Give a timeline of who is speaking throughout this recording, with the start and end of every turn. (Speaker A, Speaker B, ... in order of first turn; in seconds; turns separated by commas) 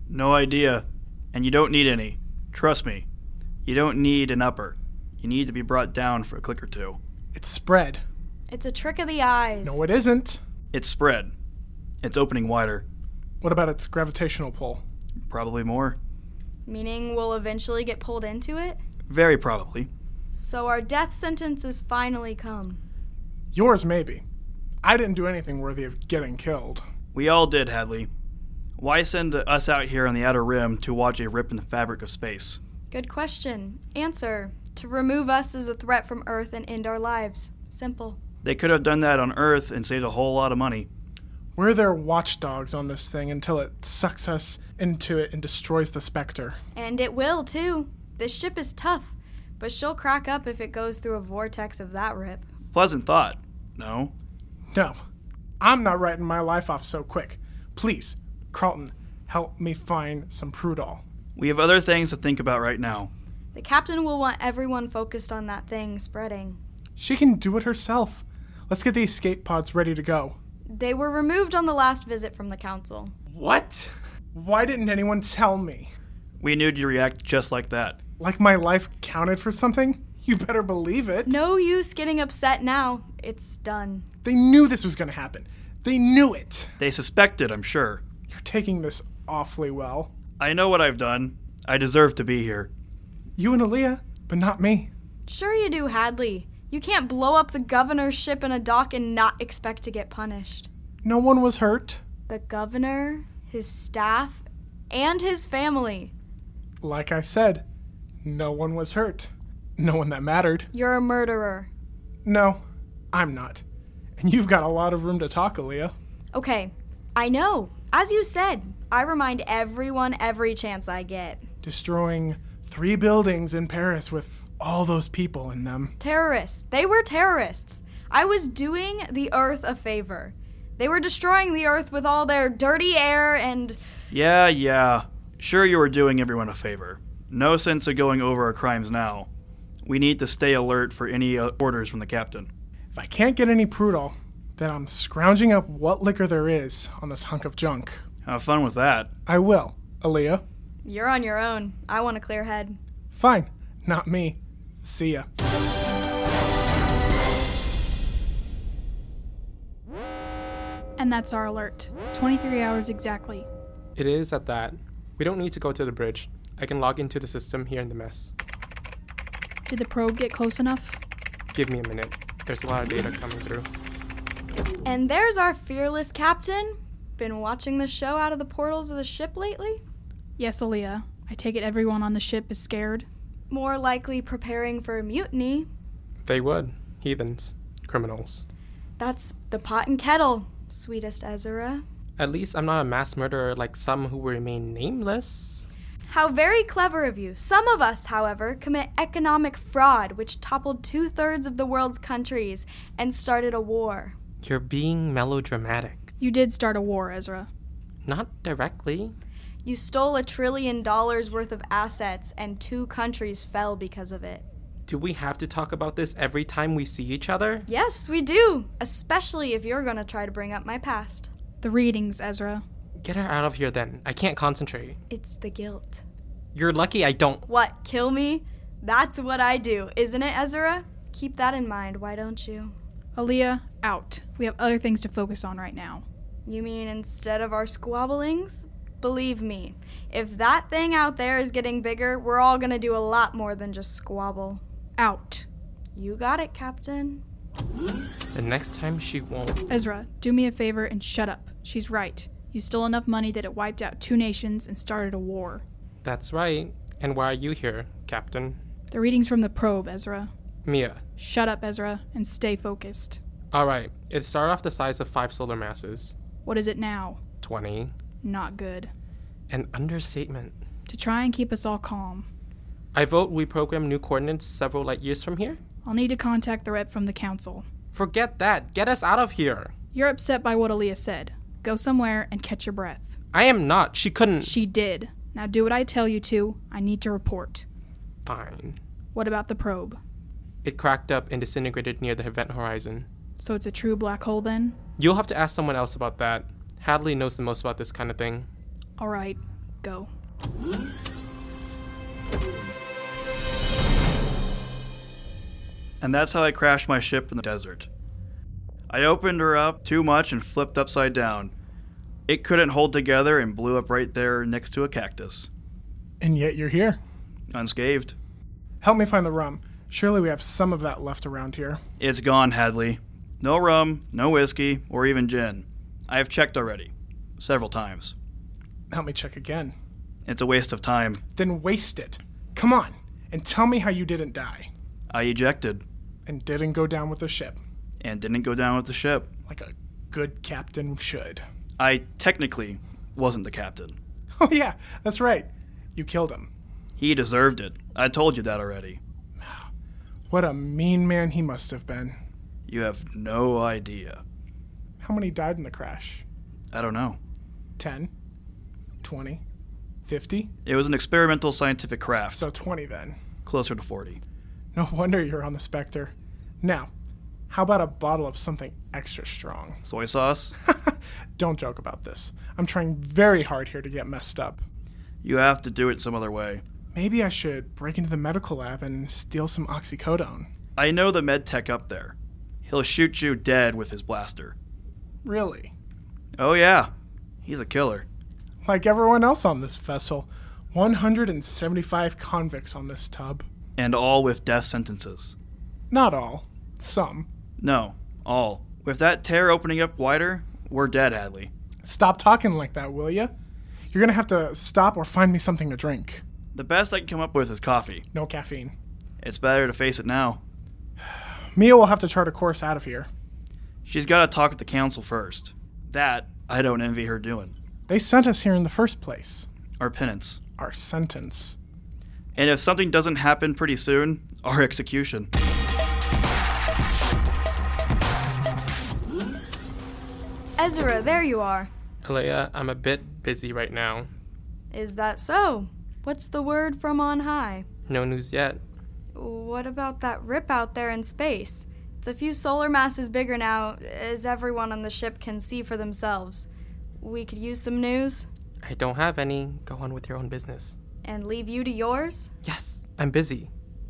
Speaker A: 0.1-3.0, Speaker A: 3.6-7.0, Speaker B: 7.3-8.0, Speaker C: 8.5-9.8, Speaker B: 9.6-10.4, Speaker A: 10.7-11.3, Speaker A: 12.0-12.8, Speaker B: 13.4-14.8, Speaker A: 15.3-16.0, Speaker C: 16.6-18.8, Speaker A: 19.1-19.9, Speaker C: 20.3-22.8, Speaker B: 23.5-24.2, Speaker B: 24.8-26.9, Speaker A: 27.1-28.1, Speaker A: 28.8-32.6, Speaker C: 32.9-38.2, Speaker A: 38.4-40.9, Speaker B: 41.5-46.6, Speaker C: 46.7-52.5, Speaker A: 52.7-54.1, Speaker B: 54.7-55.0, Speaker B: 55.6-61.0, Speaker A: 61.4-63.1, Speaker C: 63.5-66.6, Speaker B: 67.0-70.4, Speaker C: 70.7-73.1, Speaker D: 73.3-73.9, Speaker B: 74.3-75.9, Speaker A: 76.4-78.0, Speaker B: 78.2-81.3, Speaker C: 81.2-84.0, Speaker B: 84.2-86.7, Speaker A: 86.8-88.0, Speaker B: 88.3-90.1, Speaker A: 90.4-92.7, Speaker B: 93.4-94.9, Speaker C: 95.3-100.7, Speaker B: 101.0-102.0, Speaker C: 102.3-106.1, Speaker B: 106.8-107.6, Speaker B: 108.2-110.7, Speaker C: 110.7-111.7, Speaker B: 112.2-113.6, Speaker B: 114.2-115.9, Speaker C: 116.3-121.5, Speaker B: 121.6-125.9, Speaker C: 126.0-133.8, Speaker A: 134.1-139.3, Speaker A: 139.8-142.5, Speaker B: 142.9-148.0, Speaker A: 148.2-149.1, Speaker B: 149.2-150.4, Speaker C: 150.8-152.8, Speaker B: 153.1-155.3, Speaker E: 161.0-163.5, Speaker D: 163.9-168.3, Speaker E: 169.7-171.0, Speaker D: 171.5-173.7, Speaker C: 174.8-179.8, Speaker E: 180.4-183.1, Speaker C: 183.5-185.7, Speaker D: 186.2-188.4, Speaker C: 189.0-191.8, Speaker D: 192.2-195.7, Speaker C: 196.1-204.1, Speaker D: 204.4-206.1, Speaker E: 206.2-207.5, Speaker D: 208.0-209.1, Speaker C: 209.6-214.4, Speaker D: 214.9-217.7, Speaker C: 217.7-221.3, Speaker E: 221.6-222.6, Speaker D: 223.0-225.0, Speaker C: 225.1-226.0, Speaker D: 226.5-227.4, Speaker C: 227.5-232.7, Speaker E: 233.2-236.0, Speaker C: 236.4-244.6, Speaker E: 245.0-245.4, Speaker C: 245.9-247.2, Speaker D: 248.3-249.6, Speaker E: 249.7-255.6, Speaker D: 256.0-258.6, Speaker E: 258.9-260.3, Speaker D: 260.6-261.0, Speaker E: 261.2-263.2, Speaker D: 263.5-266.1, Speaker E: 266.4-267.2, Speaker D: 267.4-267.9, Speaker E: 268.2-268.9, Speaker D: 269.5-270.6, Speaker E: 270.9-272.3, Speaker D: 272.9-275.6, Speaker E: 275.8-277.6, Speaker D: 277.9-279.7, Speaker E: 279.9-283.1, Speaker D: 283.3-284.5, Speaker E: 284.4-287.6, Speaker D: 288.2-288.8, Speaker E: 289.1-290.0, Speaker D: 290.6-293.1, Speaker E: 293.4-294.8, Speaker D: 295.0-298.5, Speaker E: 299.0-300.1, Speaker A: 306.0-307.9, Speaker A: 308.9-311.5, Speaker A: 312.3-315.5, Speaker B: 316.2-317.0, Speaker A: 317.5-318.1, Speaker B: 318.8-321.8, Speaker A: 322.0-328.1, Speaker B: 328.9-329.7, Speaker A: 330.2-331.2, Speaker B: 331.4-334.7, Speaker A: 335.1-335.8, Speaker B: 336.2-337.6, Speaker A: 338.0-339.3, Speaker B: 339.5-341.4, Speaker A: 341.8-343.9, Speaker B: 344.4-346.5, Speaker A: 347.0-349.0, Speaker B: 349.4-349.6, Speaker B: 350.3-352.2, Speaker A: 352.7-354.2, Speaker B: 355.0-356.2, Speaker A: 356.7-357.2, Speaker B: 357.8-358.1, Speaker B: 359.0-359.4, Speaker B: 360.1-360.5, Speaker A: 360.6-362.4, Speaker B: 362.3-363.2, Speaker A: 363.4-364.2, Speaker B: 364.7-366.9, Speaker B: 367.5-369.8, Speaker A: 369.8-370.5, Speaker B: 370.6-374.6, Speaker A: 375.2-376.6, Speaker B: 376.9-380.5, Speaker A: 380.8-382.1, Speaker A: 382.6-384.5, Speaker B: 385.2-385.7, Speaker A: 386.4-386.9, Speaker A: 387.4-388.1, Speaker B: 388.6-393.5, Speaker A: 393.8-395.3, Speaker B: 395.9-397.3, Speaker A: 397.6-401.5, Speaker B: 401.8-403.3, Speaker B: 403.9-406.2, Speaker A: 406.5-408.0, Speaker B: 408.1-408.7, Speaker A: 409.2-410.4, Speaker B: 411.1-413.1, Speaker A: 413.8-417.5, Speaker B: 417.9-419.5, Speaker A: 419.8-420.4, Speaker B: 420.6-421.6, Speaker A: 422.4-425.3, Speaker C: 430.6-431.7, Speaker D: 432.0-434.1, Speaker C: 434.7-437.7, Speaker D: 437.9-438.6, Speaker C: 439.1-446.5, Speaker C: 447.0-448.3, Speaker D: 448.6-450.8, Speaker C: 451.0-452.3, Speaker D: 452.4-453.5